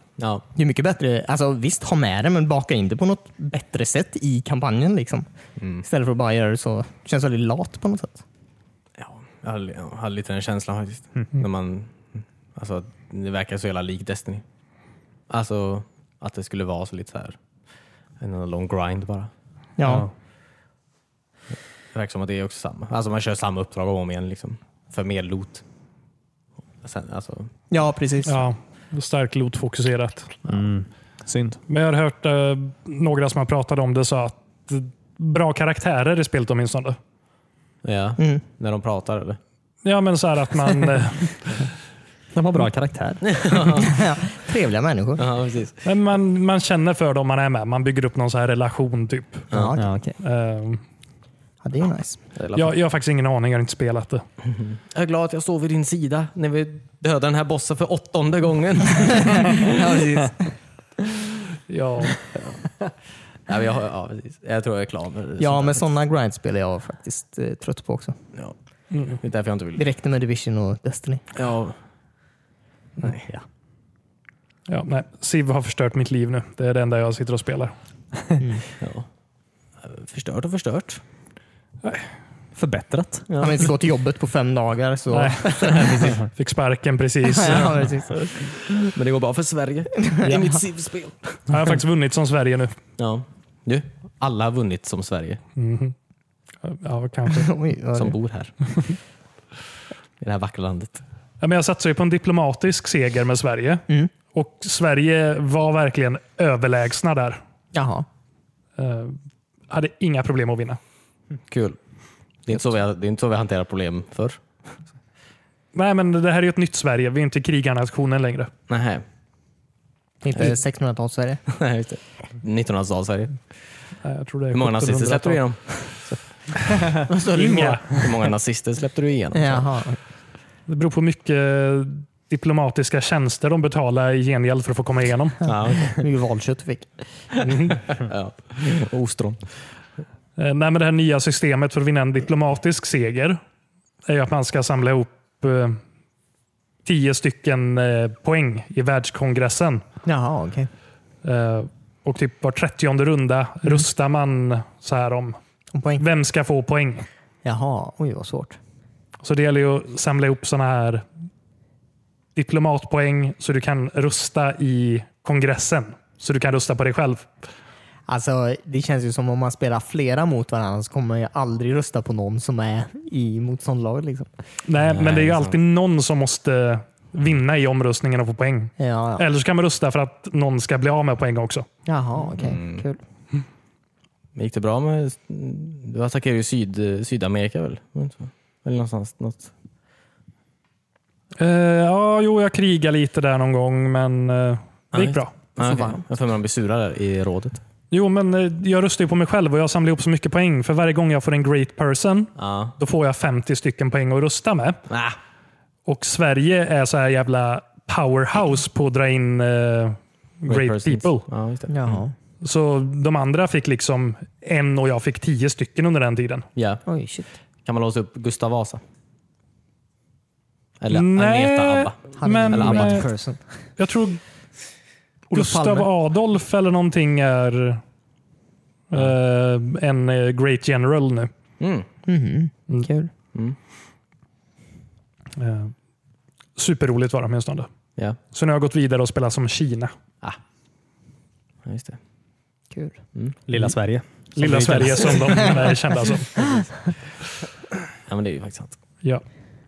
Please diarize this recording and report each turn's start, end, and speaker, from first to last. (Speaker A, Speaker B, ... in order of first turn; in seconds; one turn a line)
Speaker A: 0.2-0.4
Speaker B: 0.6-5.3
Speaker A: 5.6-5.8
Speaker B: 5.8-8.2
Speaker A: 9.0-14.4
Speaker A: 15.3-17.4
Speaker A: 18.2-19.3
Speaker B: 19.8-20.1
Speaker C: 19.9-20.1
Speaker A: 21.9-25.6
Speaker A: 26.8-27.5
Speaker B: 27.7-28.5
Speaker D: 28.3-30.4
Speaker C: 30.5-31.6
Speaker D: 31.7-37.0
Speaker A: 37.8-39.4
Speaker B: 38.2-38.4
Speaker D: 39.8-41.6
Speaker C: 42.3-43.6
Speaker A: 43.2-44.0
Speaker B: 43.8-45.2
Speaker A: 45.2-45.8
Speaker D: 45.9-49.5
Speaker B: 49.5-50.0
Speaker C: 49.8-50.2
Speaker D: 50.2-50.8
Speaker B: 51.6-52.2
Speaker A: 52.4-52.7
Speaker D: 52.5-54.2
Speaker A: 54.4-59.7
Speaker B: 59.1-60.5
Speaker D: 61.7-62.2
Speaker A: 62.3-62.6
Speaker A: 63.5-65.8
Speaker B: 65.4-68.2
Speaker D: 68.9-69.2
Speaker A: 69.1-69.8
Speaker B: 69.8-71.2
Speaker A: 71.3-71.8
Speaker A: 73.0-73.3
Speaker D: 74.7-77.7
Speaker B: 78.4-78.6
Speaker A: 78.8-79.1
Speaker A: 79.8-81.0
Speaker D: 81.8-82.1
Speaker C: 82.5-83.3
Speaker A: 83.3-83.6
Speaker B: 83.4-85.9
Speaker D: 85.1-87.8
Speaker A: 85.5-86.2
Speaker B: 87.3-88.2
Speaker A: 88.1-91.5
Speaker B: 90.0-90.5
Speaker D: 91.5-92.8
Speaker A: 93.0-95.4
Speaker D: 95.6-95.9
Speaker D: 96.6-97.5
Speaker B: 97.3-98.2
Speaker A: 98.0-98.7
Speaker A: 100.2-101.0
Speaker D: 101.4-107.4
Speaker B: 107.7-108.1
Speaker D: 108.8-109.2
Speaker D: 109.7-110.8
Speaker A: 111.5-111.8
Speaker A: 112.5-114.4
Speaker D: 115.7-118.5
Speaker A: 118.7-119.0
Speaker B: 120.2-121.4
Speaker A: 121.5-123.4
Speaker D: 124.0-125.4
Speaker A: 124.5-126.2
Speaker D: 126.9-128.1
Speaker B: 127.0-128.0
Speaker A: 127.9-129.7
Speaker B: 129.3-130.0
Speaker D: 130.7-135.5
Speaker A: 135.4-136.0
Speaker B: 135.5-137.7
Speaker A: 137.5-139.4
Speaker D: 140.4-143.4
Speaker D: 144.1-145.8
Speaker D: 146.8-149.8
Speaker B: 150.1-150.7
Speaker D: 151.2-155.4
Speaker B: 155.7-156.1
Speaker D: 156.0-157.1
Speaker B: 157.4-158.6
Speaker D: 159.2-161.1
Speaker D: 162.3-167.3
Speaker B: 168.1-174.3
Speaker D: 174.7-181.7
Speaker A: 174.9-175.6
Speaker B: 178.8-179.2
Speaker B: 181.9-183.0
Speaker A: 182.4-182.8
Speaker A: 184.4-189.5
Speaker D: 191.4-195.3
Speaker A: 194.9-197.6
Speaker B: 195.6-196.0
Speaker D: 197.9-204.8
Speaker A: 202.4-202.8
Speaker A: 204.9-205.2
Speaker D: 205.9-211.2
Speaker A: 210.5-212.0
Speaker B: 211.7-212.1
Speaker D: 212.4-216.5
Speaker A: 216.6-216.8
Speaker B: 216.9-217.3
Speaker A: 217.6-218.8
Speaker A: 220.8-223.1
Speaker D: 220.9-223.1
Speaker B: 222.2-223.4
Speaker D: 223.8-224.2
Speaker B: 225.3-225.9
Speaker D: 225.3-227.8
Speaker D: 228.9-231.3
Speaker A: 231.6-231.9
Speaker B: 232.1-233.1
Speaker D: 235.4-235.7
Speaker D: 236.6-237.7
Speaker D: 238.3-239.9
Speaker A: 241.6-242.0
Speaker B: 242.7-243.0
Speaker C: 243.5-245.5
Speaker D: 244.4-246.6
Speaker A: 248.1-248.8